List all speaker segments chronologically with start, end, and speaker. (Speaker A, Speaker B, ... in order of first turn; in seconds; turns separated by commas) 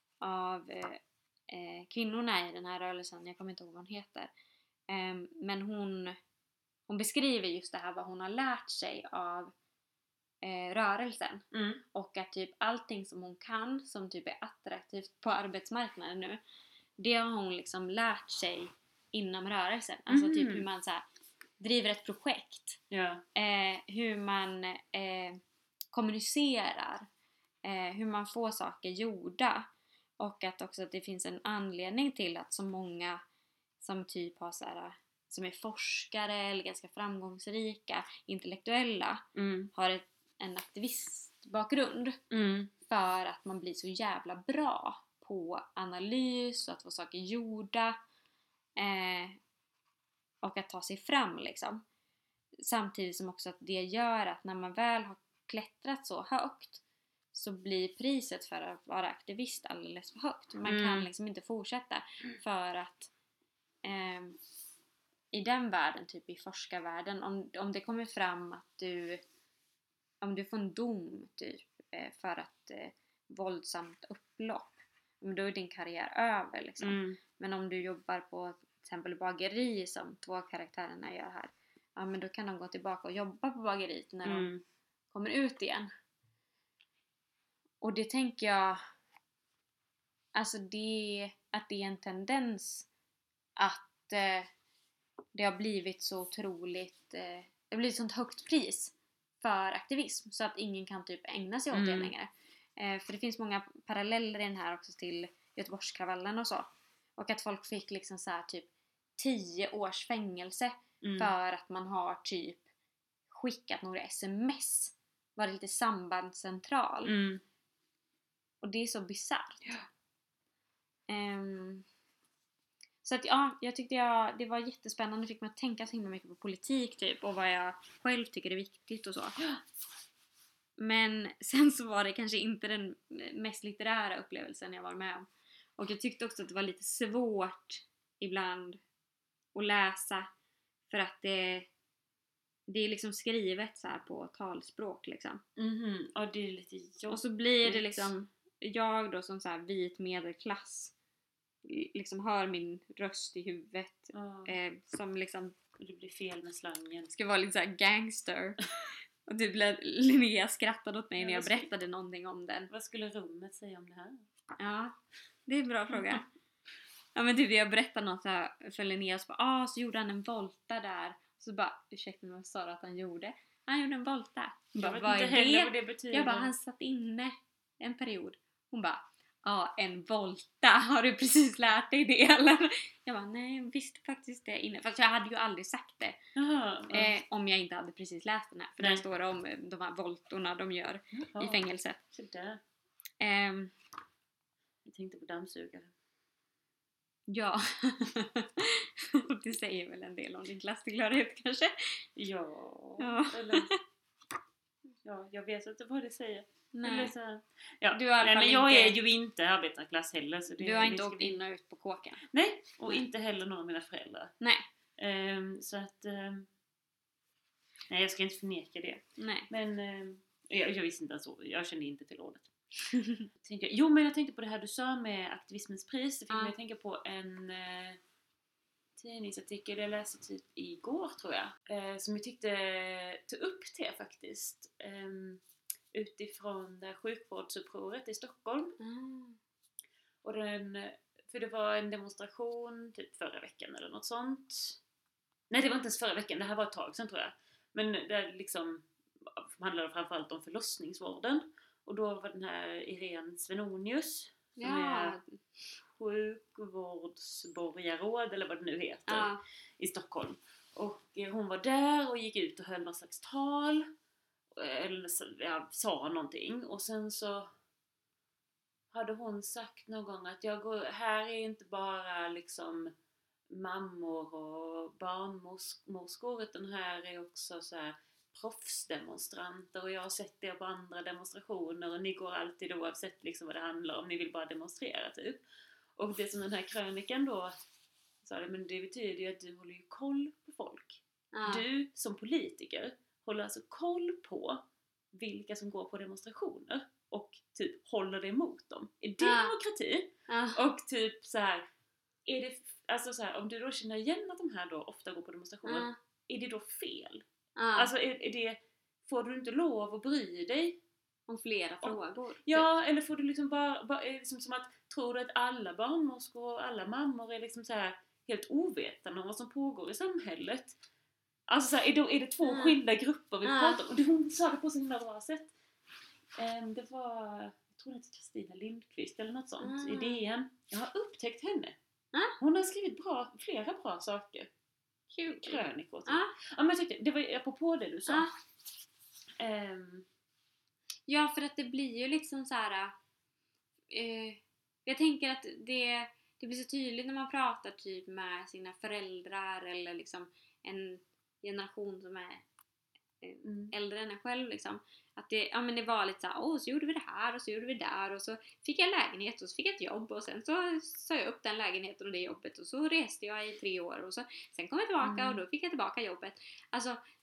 Speaker A: 0.2-4.3, Speaker A: 4.9-6.2, Speaker A: 6.9-9.5, Speaker A: 10.4-16.4, Speaker B: 11.5-11.8, Speaker A: 17.0-21.0, Speaker B: 20.1-20.6, Speaker A: 21.6-22.8, Speaker B: 22.9-23.2, Speaker A: 23.4-25.4, Speaker A: 25.9-27.1, Speaker A: 27.6-29.7, Speaker A: 30.2-33.2, Speaker A: 33.8-39.2, Speaker B: 39.4-39.7, Speaker A: 39.7-42.2, Speaker B: 42.3-42.7, Speaker A: 42.9-48.0, Speaker A: 48.8-49.4, Speaker A: 50.4-51.8, Speaker A: 52.6-63.1, Speaker B: 60.6-61.1, Speaker A: 63.8-64.4, Speaker A: 65.3-69.2, Speaker A: 70.2-84.5, Speaker B: 76.8-77.2, Speaker B: 84.2-84.6, Speaker A: 85.1-85.9, Speaker A: 87.8-88.8, Speaker A: 90.3-92.9, Speaker A: 93.6-94.5, Speaker A: 95.3-112.7, Speaker B: 101.7-102.1, Speaker B: 111.0-111.3, Speaker A: 113.3-117.1, Speaker B: 117.0-117.4, Speaker A: 118.6-119.7, Speaker A: 121.1-121.8, Speaker A: 123.0-129.4, Speaker A: 130.8-138.8, Speaker A: 139.6-140.3, Speaker A: 140.9-141.7, Speaker A: 142.7-145.4, Speaker B: 145.6-148.1, Speaker A: 147.1-150.9, Speaker A: 151.7-155.6, Speaker B: 154.1-154.6, Speaker B: 155.8-157.1, Speaker A: 157.1-158.7, Speaker A: 159.3-162.7, Speaker B: 161.2-161.7, Speaker B: 162.7-164.3, Speaker A: 164.6-164.9, Speaker A: 165.5-166.3, Speaker B: 165.9-166.2, Speaker A: 167.2-186.2, Speaker B: 174.8-176.5, Speaker B: 186.4-187.1, Speaker A: 186.9-192.0, Speaker B: 191.1-192.6, Speaker A: 193.2-193.8, Speaker B: 194.8-195.9, Speaker A: 197.3-202.1, Speaker B: 202.2-203.7, Speaker A: 203.0-203.8, Speaker B: 205.0-211.4, Speaker A: 206.7-207.1, Speaker A: 207.9-209.0, Speaker A: 210.6-212.2, Speaker B: 212.3-214.3, Speaker A: 214.4-214.7, Speaker B: 215.0-216.5, Speaker B: 217.9-222.5, Speaker A: 219.2-219.5, Speaker A: 222.9-223.3, Speaker B: 223.4-228.0, Speaker A: 226.3-226.6, Speaker B: 229.0-238.8, Speaker A: 238.8-239.4, Speaker B: 240.2-244.8, Speaker B: 245.5-255.2, Speaker A: 254.6-255.4, Speaker B: 255.9-263.9, Speaker A: 259.1-259.4, Speaker B: 264.5-267.5, Speaker B: 268.9-272.9, Speaker B: 273.5-285.4, Speaker B: 286.0-287.5, Speaker B: 288.2-301.6, Speaker A: 291.3-291.6, Speaker A: 299.2-299.6, Speaker A: 300.3-300.6, Speaker B: 302.3-310.8, Speaker A: 305.6-306.0, Speaker A: 307.6-307.9, Speaker A: 311.3-312.7, Speaker B: 311.8-320.8, Speaker B: 321.5-325.5, Speaker A: 322.4-322.7, Speaker A: 323.4-323.8, Speaker B: 326.4-331.8, Speaker A: 329.6-330.2, Speaker B: 332.4-334.5, Speaker A: 335.1-336.3, Speaker B: 335.4-338.3, Speaker A: 338.1-338.3, Speaker B: 339.4-340.1, Speaker A: 341.1-342.9, Speaker A: 343.9-352.4, Speaker A: 353.2-367.0, Speaker B: 353.4-353.7, Speaker B: 365.0-365.4